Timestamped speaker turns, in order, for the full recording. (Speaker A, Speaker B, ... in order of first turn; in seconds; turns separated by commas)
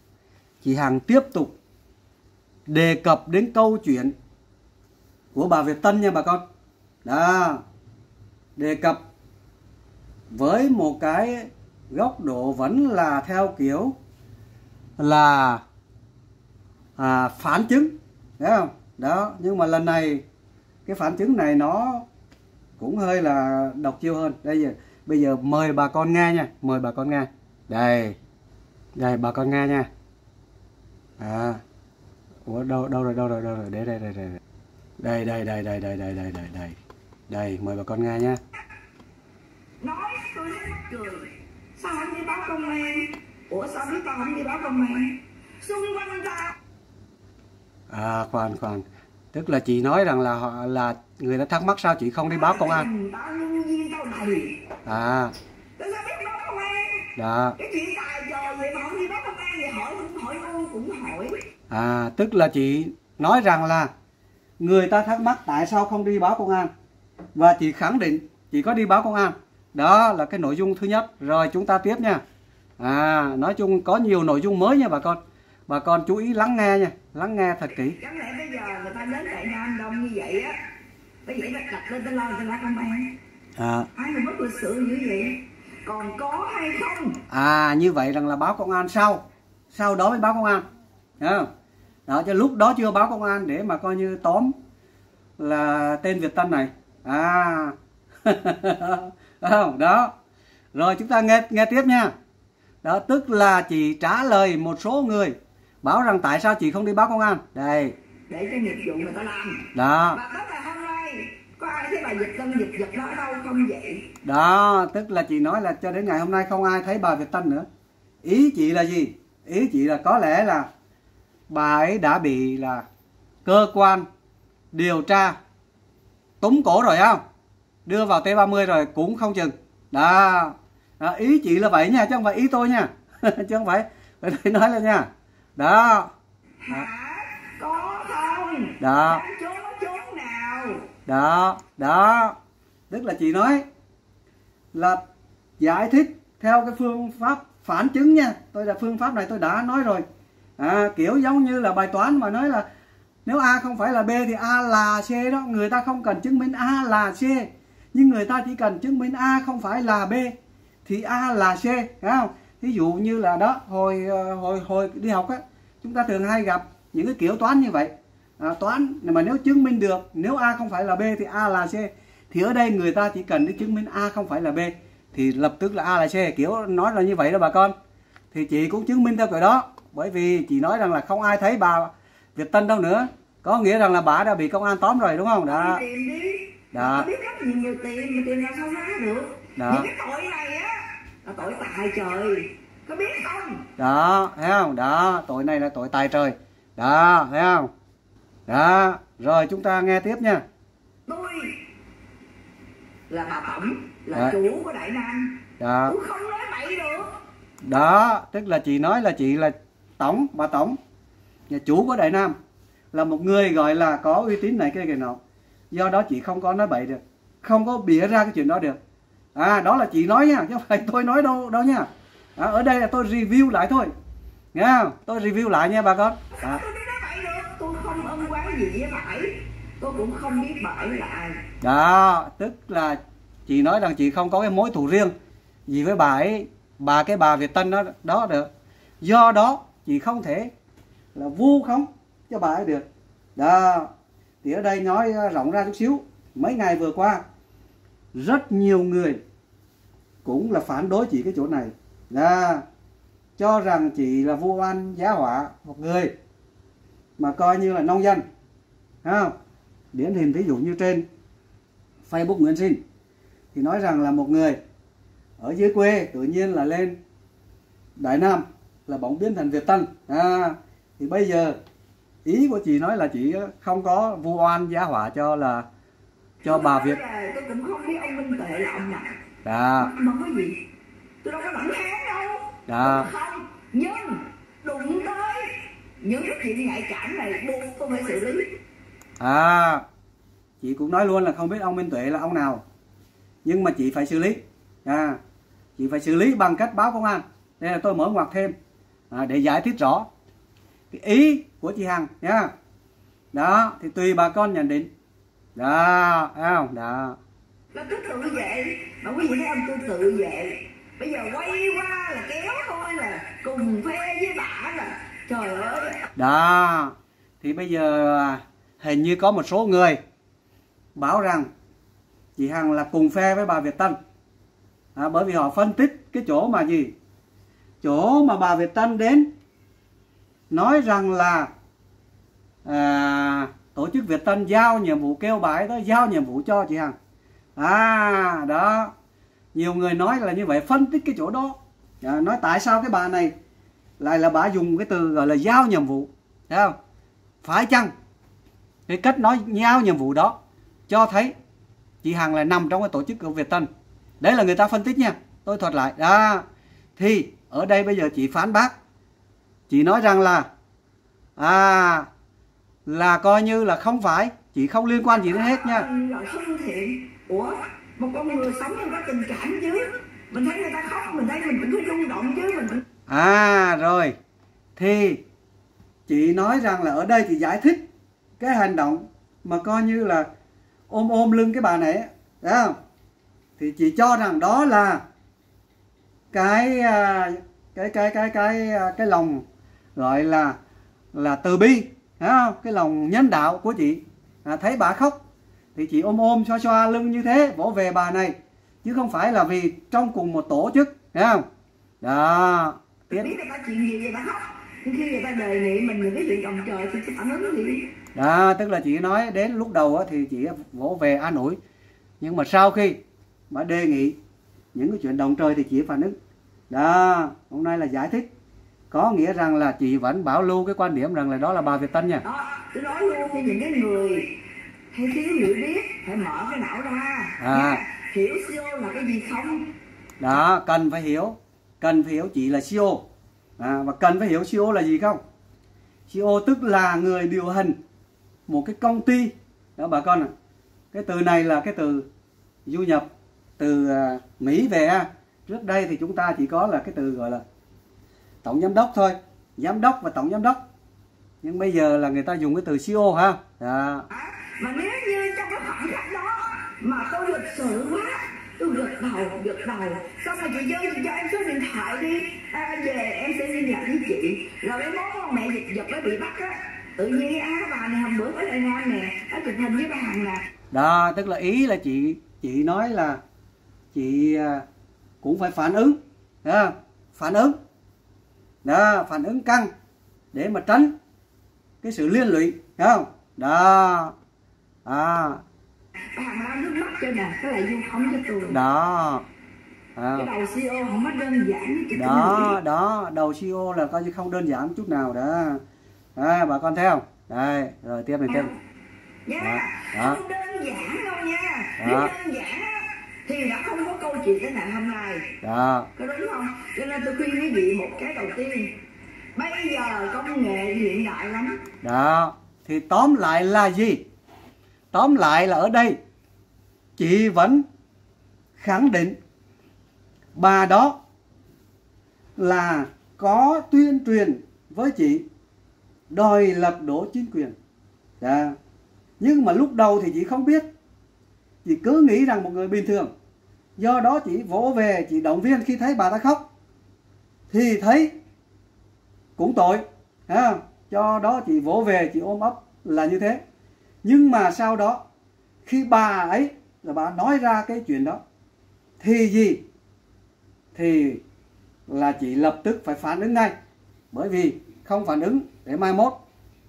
Speaker A: 0.6-1.5, Speaker A: 2.7-4.1, Speaker A: 5.3-6.4, Speaker A: 7.0-7.6, Speaker A: 8.6-9.0, Speaker A: 10.3-13.9, Speaker A: 15.0-15.6, Speaker A: 17.0-20.2, Speaker A: 20.9-22.0, Speaker A: 22.8-28.1, Speaker A: 29.0-29.9, Speaker A: 31.2-31.6, Speaker A: 32.5-34.4, Speaker A: 35.0-36.8, Speaker A: 37.3-38.4, Speaker B: 39.8-46.5, Speaker A: 47.9-52.9, Speaker B: 52.3-54.6, Speaker A: 54.9-55.3, Speaker B: 55.8-61.4, Speaker A: 57.1-57.5, Speaker A: 61.7-63.9, Speaker A: 64.6-66.7, Speaker A: 67.3-72.2, Speaker A: 72.8-78.0, Speaker B: 78.0-80.5, Speaker B: 81.2-83.1, Speaker A: 83.6-83.9, Speaker B: 83.9-87.2, Speaker A: 87.3-89.2, Speaker A: 89.7-90.6, Speaker A: 91.2-91.5, Speaker A: 92.1-94.5, Speaker A: 95.4-100.1, Speaker A: 100.7-102.1, Speaker A: 102.8-107.9, Speaker B: 108.3-114.1, Speaker A: 109.7-110.2, Speaker A: 114.2-117.7, Speaker A: 118.2-120.7, Speaker A: 121.5-122.8, Speaker A: 123.4-124.0, Speaker A: 124.7-125.4, Speaker A: 126.4-127.2, Speaker A: 127.8-136.1, Speaker B: 136.6-140.9, Speaker A: 138.8-139.2, Speaker A: 141.1-142.3, Speaker A: 142.9-143.6, Speaker A: 144.7-145.0, Speaker A: 145.6-150.0, Speaker A: 150.6-152.6, Speaker A: 153.2-160.3, Speaker A: 160.8-177.7, Speaker A: 178.3-185.8, Speaker B: 185.5-193.7, Speaker A: 186.7-187.1, Speaker A: 189.6-189.9, Speaker A: 193.8-197.7, Speaker A: 198.5-200.4, Speaker B: 201.1-201.6, Speaker B: 203.1-207.1, Speaker A: 205.6-205.9, Speaker A: 207.6-210.8, Speaker A: 211.5-212.3, Speaker A: 212.9-215.2, Speaker A: 215.7-218.8, Speaker A: 219.3-223.9, Speaker A: 224.5-226.6, Speaker B: 226.4-231.4, Speaker A: 231.6-235.1, Speaker A: 235.7-238.5, Speaker A: 239.0-240.5, Speaker A: 241.1-243.9, Speaker A: 244.4-247.2, Speaker A: 248.1-249.2, Speaker A: 250.2-252.6, Speaker A: 253.4-256.1, Speaker A: 257.2-258.2, Speaker A: 259.0-259.3, Speaker A: 259.9-261.0, Speaker A: 262.1-262.8, Speaker A: 263.5-264.6, Speaker A: 265.4-266.9, Speaker A: 268.0-271.6, Speaker A: 272.2-275.6, Speaker A: 276.4-277.0, Speaker B: 276.4-279.1, Speaker A: 279.4-279.9, Speaker B: 279.8-280.6, Speaker B: 281.2-288.5, Speaker A: 282.7-283.1, Speaker A: 289.2-289.8, Speaker A: 290.6-292.6, Speaker A: 293.4-295.2, Speaker A: 295.8-298.5, Speaker A: 299.1-300.1, Speaker A: 300.9-302.5, Speaker A: 303.3-304.9, Speaker A: 305.6-307.2, Speaker B: 307.7-316.1, Speaker A: 316.1-320.0, Speaker A: 320.9-321.5, Speaker A: 322.4-323.9, Speaker A: 324.9-326.9, Speaker A: 327.8-329.3, Speaker A: 330.5-331.5, Speaker A: 332.6-336.9, Speaker A: 337.6-338.9, Speaker A: 339.5-343.3, Speaker A: 344.0-346.8, Speaker A: 347.4-347.9, Speaker A: 348.9-350.4, Speaker A: 350.9-351.3, Speaker A: 352.0-353.7, Speaker A: 354.2-356.4, Speaker A: 356.9-358.7, Speaker A: 359.7-360.5, Speaker A: 361.4-362.1, Speaker A: 362.9-365.9, Speaker B: 365.3-372.8, Speaker A: 373.1-374.1, Speaker A: 374.8-375.2, Speaker A: 376.1-377.8, Speaker A: 378.4-380.3, Speaker A: 380.9-382.8, Speaker A: 383.6-385.0, Speaker A: 386.3-389.4, Speaker A: 389.9-390.6, Speaker A: 391.1-395.2, Speaker A: 395.7-401.4, Speaker A: 402.0-403.3, Speaker B: 403.1-407.9, Speaker A: 408.1-411.6, Speaker A: 412.2-413.0, Speaker A: 413.5-414.1, Speaker A: 414.7-416.1, Speaker A: 416.7-418.3, Speaker A: 418.9-422.2, Speaker B: 422.2-424.4, Speaker B: 424.9-429.7, Speaker A: 427.4-427.8, Speaker A: 430.2-433.0, Speaker A: 433.6-435.2, Speaker A: 436.1-437.8, Speaker A: 438.5-440.3, Speaker A: 440.9-442.1, Speaker A: 442.6-443.1, Speaker A: 443.6-447.4, Speaker A: 448.4-450.6, Speaker A: 451.4-454.1, Speaker B: 454.1-470.4, Speaker A: 470.7-473.2, Speaker A: 473.9-474.6, Speaker A: 475.2-477.5, Speaker A: 478.6-479.7, Speaker A: 480.3-480.9, Speaker A: 481.8-484.1, Speaker A: 484.9-485.4, Speaker B: 486.1-488.6, Speaker A: 488.5-489.2, Speaker A: 489.9-490.3, Speaker B: 490.1-492.6, Speaker A: 491.9-495.6, Speaker A: 496.1-498.5, Speaker B: 498.3-498.5, Speaker B: 499.2-505.3, Speaker A: 499.4-500.2, Speaker A: 501.8-502.1, Speaker A: 505.4-505.9, Speaker B: 505.9-508.8, Speaker B: 509.3-511.6, Speaker A: 511.8-514.0, Speaker A: 514.9-516.0, Speaker A: 517.0-517.6, Speaker A: 518.6-519.1, Speaker A: 520.4-521.0, Speaker A: 522.4-525.2, Speaker A: 526.1-527.5, Speaker A: 528.2-528.5, Speaker A: 529.2-530.6, Speaker A: 531.6-533.1, Speaker A: 533.8-536.4, Speaker A: 537.5-538.1, Speaker A: 539.4-543.4, Speaker A: 544.0-545.0, Speaker A: 545.6-548.2, Speaker A: 549.0-549.6, Speaker A: 550.7-551.2, Speaker A: 551.9-553.5, Speaker A: 554.1-556.1